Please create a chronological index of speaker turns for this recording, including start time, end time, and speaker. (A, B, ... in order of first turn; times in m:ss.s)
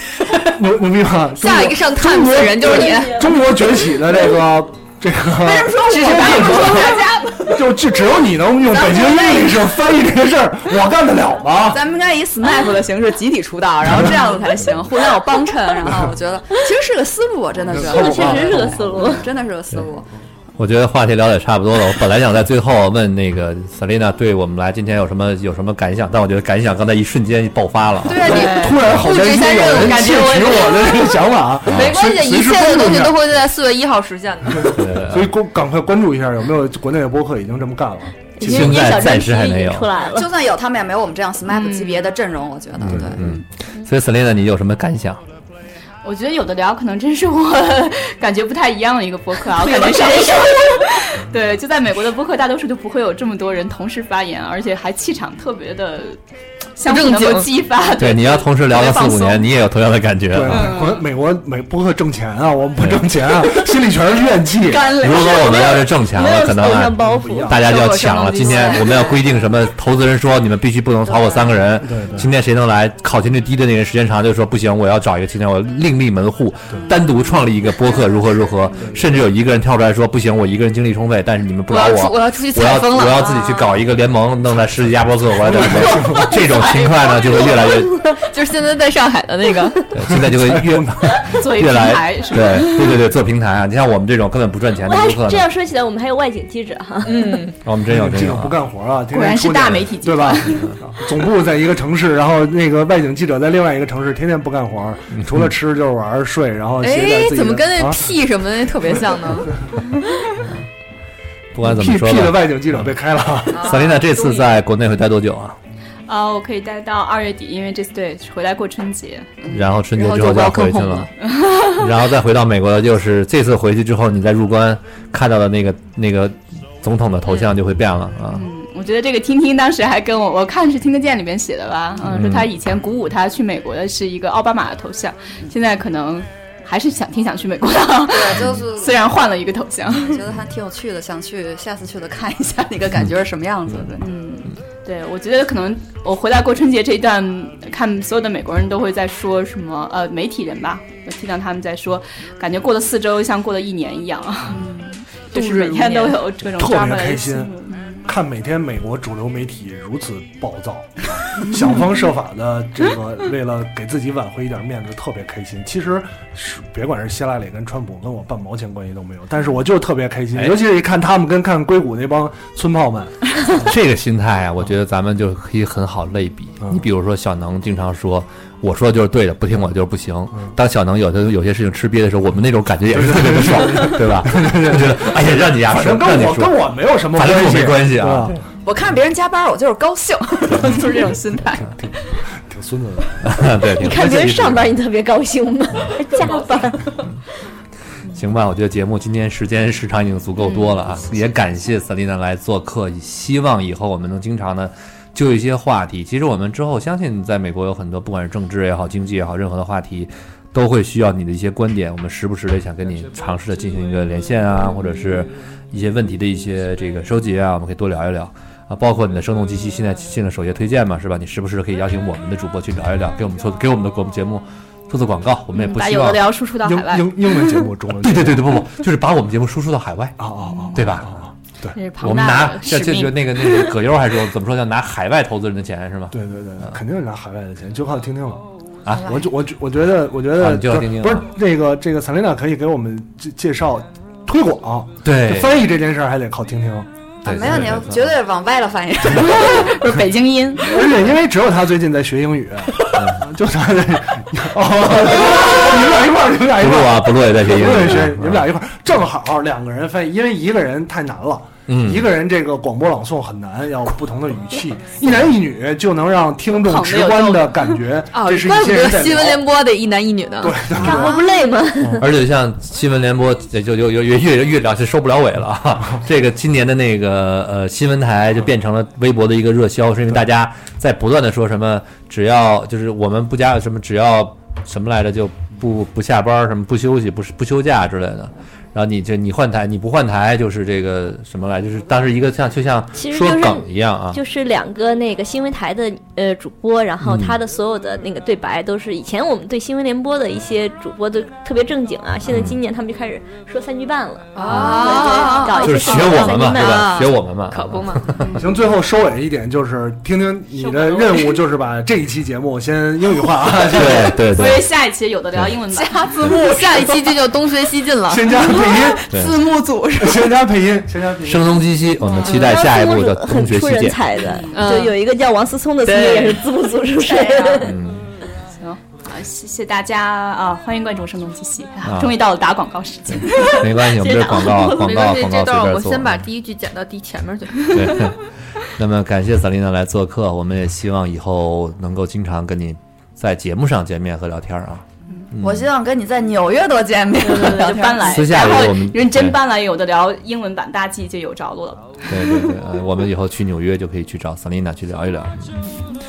0:00.4-0:11.8 A
0:01.3-0:03.2 B
0:02.6-0:04.0 C
0:05.4-0:07.6 D
0:08.7-0:09.6 D
0:11.7-0:20.1 D
0:17.7-0:18.9 A
0:17.7-0:19.2 C
0:20.6-0:28.7 E
0:28.0-0:34.8 B
0:28.2-0:33.2 A
0:31.7-0:32.0 E
0:34.5-0:38.9 A
0:34.8-0:35.3 E
0:38.4-0:40.3 C
0:38.4-0:39.9 E
0:40.0-0:43.4 D
0:41.5-0:42.1 F
0:42.8-0:45.2 E
0:46.0-0:56.2 F
0:49.7-0:50.7 C
0:56.8-0:59.5 F
0:56.8-0:57.5 B
0:58.0-1:00.7 E
1:00.3-1:05.0 A
1:00.4-1:01.0 F
1:02.8-1:03.1 E
1:04.7-1:05.8 B
1:04.9-1:27.9 E
1:05.2-1:07.6 C
1:07.0-1:07.6 A
1:07.6-1:09.2 D
1:07.8-1:09.0 B
1:11.8-1:12.3 A
1:21.7-1:23.7 B
1:25.4-1:26.4 A
1:25.8-1:29.9 B
1:29.9-1:35.4 E
1:30.0-1:31.2 A
1:31.3-1:32.8 F
1:34.8-1:37.4 C
1:37.0-1:37.6 B
1:37.6-1:38.6 E
1:37.9-1:48.0 A
1:39.1-1:40.6 F
1:40.4-1:40.8 E
1:45.1-1:45.5 E
1:46.8-1:49.5 B
1:51.5-1:52.5 E
1:51.6-1:53.7 A
1:53.5-1:54.6 B
1:53.6-1:55.6 E
1:56.1-1:59.6 F
1:59.5-2:08.4 E
1:59.9-2:01.1 B
2:01.2-2:01.8 F
2:08.3-2:20.2 F
2:12.0-2:12.5 E
2:18.1-2:19.0 D
2:19.9-2:24.0 D
2:24.0-2:38.0 F
2:35.3-2:36.2 B
2:36.6-2:53.7 A
2:50.3-2:50.6 E
2:53.6-3:08.4 E
3:02.9-3:08.4 A
3:08.6-3:11.6 D
3:10.5-3:10.8 E
3:11.6-3:13.2 A
3:13.2-3:14.7 E
3:13.8-3:16.9 C
3:18.1-3:46.3 E
3:20.4-3:20.8 F
3:45.5-3:47.1 F
3:46.6-3:48.6 A
3:47.9-3:50.2 E
3:50.2-3:51.8 A
3:50.7-3:51.2 E
3:51.7-3:53.2 F
3:52.0-3:56.8 E
3:52.1-3:53.1 B
3:56.1-3:58.4 A
3:58.8-3:59.2 E
3:58.9-3:59.2 D
3:59.0-4:06.9 A
4:00.4-4:01.3 E
4:05.0-4:05.6 E
4:07.2-4:09.8 D
4:07.2-4:08.1 E
4:09.2-4:10.7 F
4:10.6-4:29.4 A
4:12.9-4:13.2 E
4:16.6-4:18.4 E
4:21.7-4:22.1 E
4:26.5-4:27.7 F
4:28.1-4:30.6 B
4:30.4-4:31.2 A
4:30.8-4:32.0 C
4:30.9-4:31.2 D
4:31.8-4:32.1 A
4:32.0-4:54.2 E
4:53.0-5:07.0 C
4:57.0-4:57.4 E
5:02.2-5:02.6 E
5:04.3-5:08.2 B
5:04.4-5:04.9 E
5:05.6-5:08.3 E
5:08.2-5:08.6 F
5:08.4-5:14.2 A
5:10.6-5:11.3 B
5:13.7-5:14.6 E
5:13.8-5:16.9 F
5:15.7-5:20.3 B
5:18.1-5:19.1 A
5:19.1-5:19.4 E
5:20.0-5:21.7 A
5:21.2-5:24.0 E
5:22.2-5:27.7 C
5:22.2-5:22.4 B
5:22.2-5:22.5 F
5:24.2-5:24.7 F
5:24.5-5:24.9 B
5:25.8-5:26.4 B
5:27.0-5:27.7 B
5:27.6-5:28.1 E
5:28.6-5:33.6 F
5:31.8-5:32.1 E
5:33.1-5:36.2 E
5:33.4-5:38.1 B
5:37.7-5:38.2 E
5:38.8-5:45.7 E
5:45.4-5:48.1 D
5:47.2-5:52.1 F
5:47.2-5:47.8 B
5:48.0-5:49.4 E
5:52.1-5:55.5 E